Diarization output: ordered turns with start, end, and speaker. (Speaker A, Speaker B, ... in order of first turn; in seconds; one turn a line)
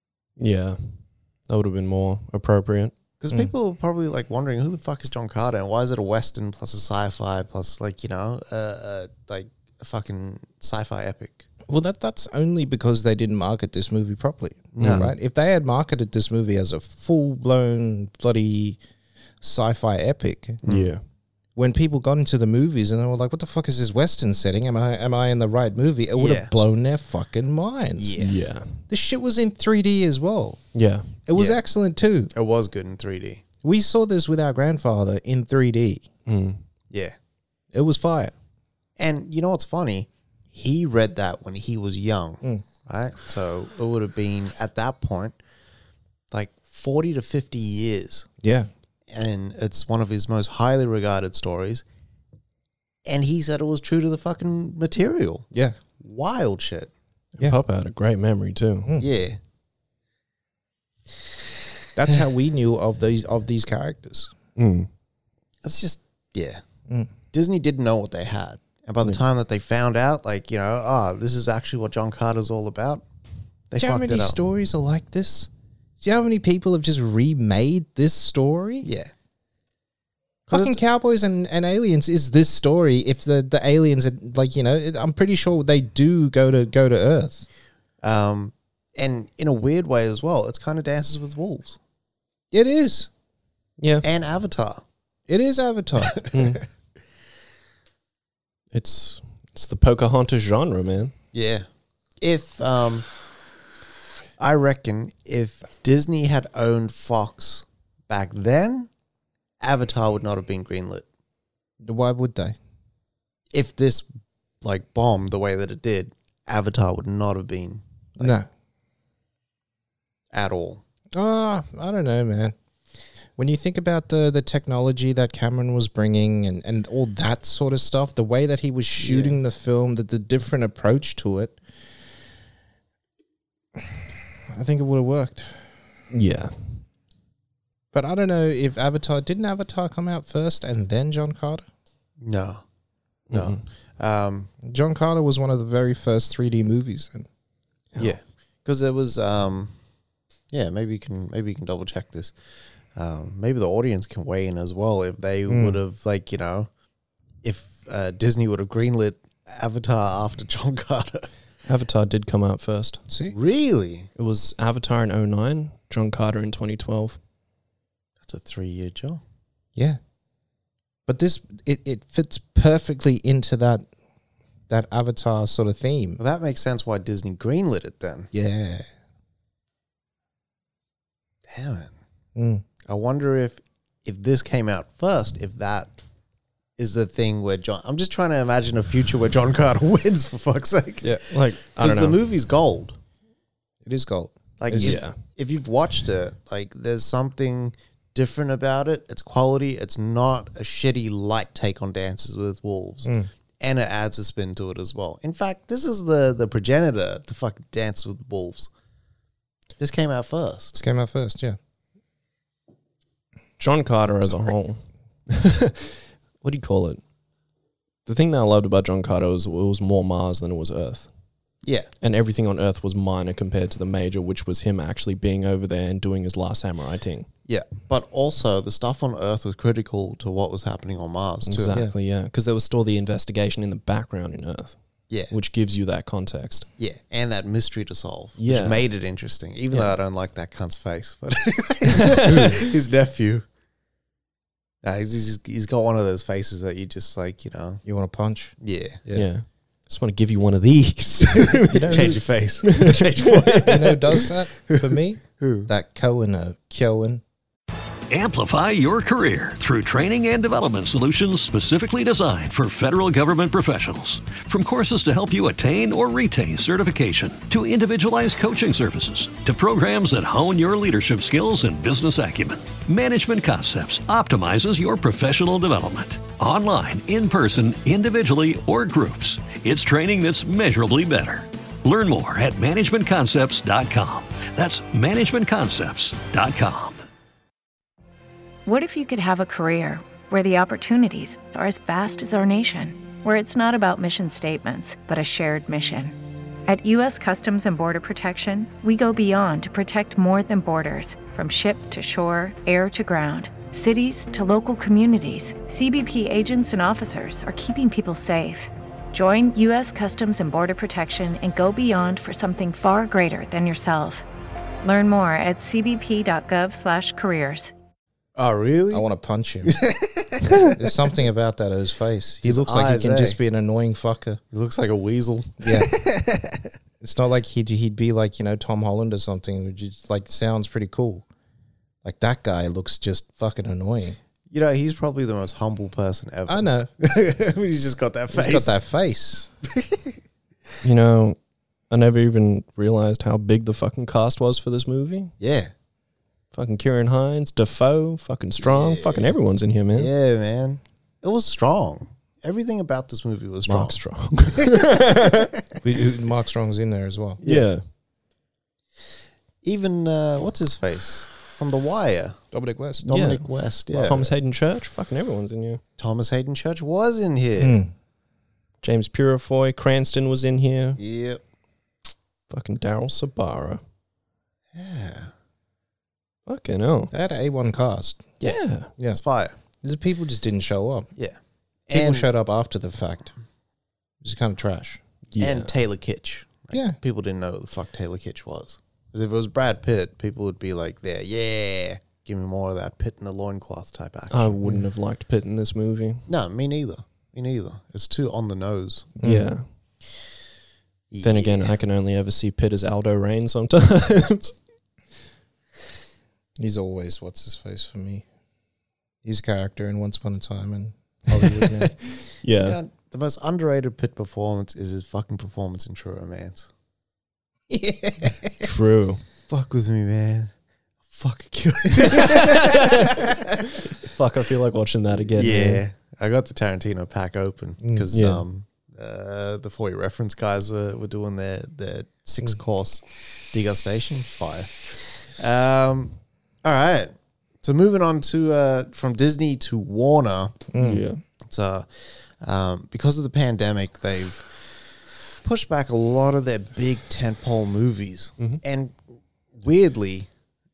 Speaker A: 0.4-3.0
Speaker B: 3.2-11.5
Speaker C: 11.7-18.8
Speaker B: 14.7-15.1
Speaker A: 14.8-15.1
Speaker C: 19.4-20.6
Speaker B: 20.6-20.9
Speaker A: 20.7-21.0
Speaker C: 21.6-28.2
Speaker B: 26.2-26.5
Speaker B: 28.0-28.3
Speaker A: 28.2-28.8
Speaker C: 28.9-30.6
Speaker A: 30.8-31.1
Speaker C: 31.3-32.3
Speaker B: 32.3-33.4
Speaker C: 33.6-36.1
Speaker A: 36.3-36.6
Speaker C: 37.7-38.3
Speaker B: 39.0-45.4
Speaker B: 46.3-48.3
Speaker C: 48.4-48.7
Speaker B: 49.1-51.8
Speaker B: 53.1-55.5
Speaker B: 56.0-56.9
Speaker A: 57.4-59.0
Speaker B: 59.0-59.4
Speaker C: 62.0-64.3
Speaker A: 64.6-64.9
Speaker B: 65.6-66.6
Speaker B: 67.3-73.0
Speaker B: 73.7-74.4
Speaker C: 73.8-78.9
Speaker B: 78.8-79.1
Speaker B: 80.5-80.8
Speaker C: 80.5-87.5
Speaker B: 88.0-91.8
Speaker C: 92.5-93.1
Speaker A: 93.8-94.0
Speaker B: 94.0-94.8
Speaker C: 95.3-96.2
Speaker A: 96.3-96.6
Speaker A: 98.7-101.1
Speaker B: 101.3-101.7
Speaker B: 102.2-103.1
Speaker B: 104.4-108.9
Speaker B: 109.6-111.0
Speaker C: 111.8-112.6
Speaker B: 113.5-114.1
Speaker B: 114.6-118.3
Speaker C: 118.2-118.5
Speaker B: 120.3-120.8
Speaker C: 121.1-122.5
Speaker C: 123.4-131.6
Speaker B: 129.0-129.3
Speaker C: 134.5-135.5
Speaker A: 136.1-136.8
Speaker C: 137.9-141.7
Speaker B: 142.2-142.6
Speaker A: 143.3-143.6
Speaker B: 143.3-144.5
Speaker C: 144.6-147.3
Speaker B: 148.0-149.7
Speaker B: 150.5-152.3
Speaker B: 152.9-156.7
Speaker C: 155.5-155.8
Speaker B: 157.4-161.3
Speaker A: 161.7-163.0
Speaker C: 163.1-163.3
Speaker B: 163.3-164.1
Speaker A: 164.2-167.2
Speaker B: 168.2-169.2
Speaker C: 171.1-173.9
Speaker C: 174.7-176.2
Speaker B: 176.2-178.3
Speaker C: 178.3-178.9
Speaker B: 181.5-181.9
Speaker C: 182.4-182.6
Speaker B: 182.8-185.9
Speaker B: 186.8-191.1
Speaker A: 191.1-192.2
Speaker B: 191.7-193.0
Speaker C: 193.8-195.0
Speaker B: 194.6-208.7
Speaker A: 194.8-195.2
Speaker B: 209.8-210.8
Speaker C: 210.7-211.6
Speaker A: 213.6-217.0
Speaker A: 218.1-221.1
Speaker B: 221.6-221.9
Speaker A: 222.0-227.3
Speaker B: 227.5-231.8
Speaker A: 231.5-234.8
Speaker A: 235.3-236.7
Speaker B: 236.8-243.4
Speaker A: 238.4-238.8
Speaker A: 242.2-242.6
Speaker B: 244.8-247.8
Speaker C: 247.8-249.3
Speaker B: 248.6-249.0
Speaker A: 249.1-253.7
Speaker B: 251.3-255.7
Speaker C: 251.7-252.2
Speaker C: 253.6-257.2
Speaker D: 258.1-287.0
Speaker E: 288.7-314.2
Speaker E: 314.8-317.7
Speaker B: 318.4-319.1
Speaker C: 318.9-319.8
Speaker B: 319.7-320.7
Speaker C: 320.6-324.4
Speaker B: 322.4-323.4
Speaker B: 324.5-326.6
Speaker C: 325.6-325.9
Speaker C: 327.0-331.2
Speaker C: 332.0-334.2
Speaker B: 334.5-338.8
Speaker C: 336.5-336.9
Speaker C: 338.3-339.5
Speaker B: 339.7-340.1
Speaker A: 340.8-341.4
Speaker A: 341.9-345.4
Speaker B: 345.4-345.7
Speaker A: 346.5-350.1
Speaker B: 348.6-349.3
Speaker B: 349.9-354.0
Speaker A: 353.7-355.5
Speaker B: 354.6-355.2
Speaker C: 355.8-357.4
Speaker B: 357.4-357.7
Speaker A: 357.4-357.8
Speaker B: 359.6-362.4
Speaker C: 362.5-363.1
Speaker B: 363.0-364.3
Speaker A: 363.1-365.8
Speaker B: 366.0-367.8
Speaker C: 367.6-367.9
Speaker A: 368.8-371.0
Speaker B: 371.0-371.4
Speaker A: 372.5-373.8
Speaker B: 374.7-375.3
Speaker A: 376.5-377.1
Speaker C: 377.1-378.4
Speaker A: 378.4-378.9
Speaker B: 379.1-379.6
Speaker C: 379.8-381.1
Speaker B: 381.9-382.3
Speaker C: 381.9-383.3
Speaker C: 384.2-385.0
Speaker A: 385.3-385.7
Speaker B: 385.4-394.6
Speaker C: 386.7-387.0
Speaker A: 394.3-396.3
Speaker B: 396.3-399.1
Speaker A: 399.2-399.6
Speaker C: 399.2-399.5
Speaker B: 401.1-401.8
Speaker A: 401.2-404.6
Speaker C: 406.6-408.2
Speaker C: 409.2-411.9
Speaker A: 412.3-412.8
Speaker B: 412.5-416.7
Speaker C: 417.7-418.7
Speaker A: 418.6-419.2
Speaker B: 419.5-420.5
Speaker B: 421.1-423.4
Speaker A: 422.2-423.1
Speaker A: 423.9-425.8
Speaker B: 425.2-440.6
Speaker C: 427.8-428.1
Speaker A: 428.1-428.4
Speaker C: 440.7-441.1
Speaker A: 440.8-441.2
Speaker B: 441.4-444.8
Speaker B: 445.4-449.0
Speaker B: 449.5-450.3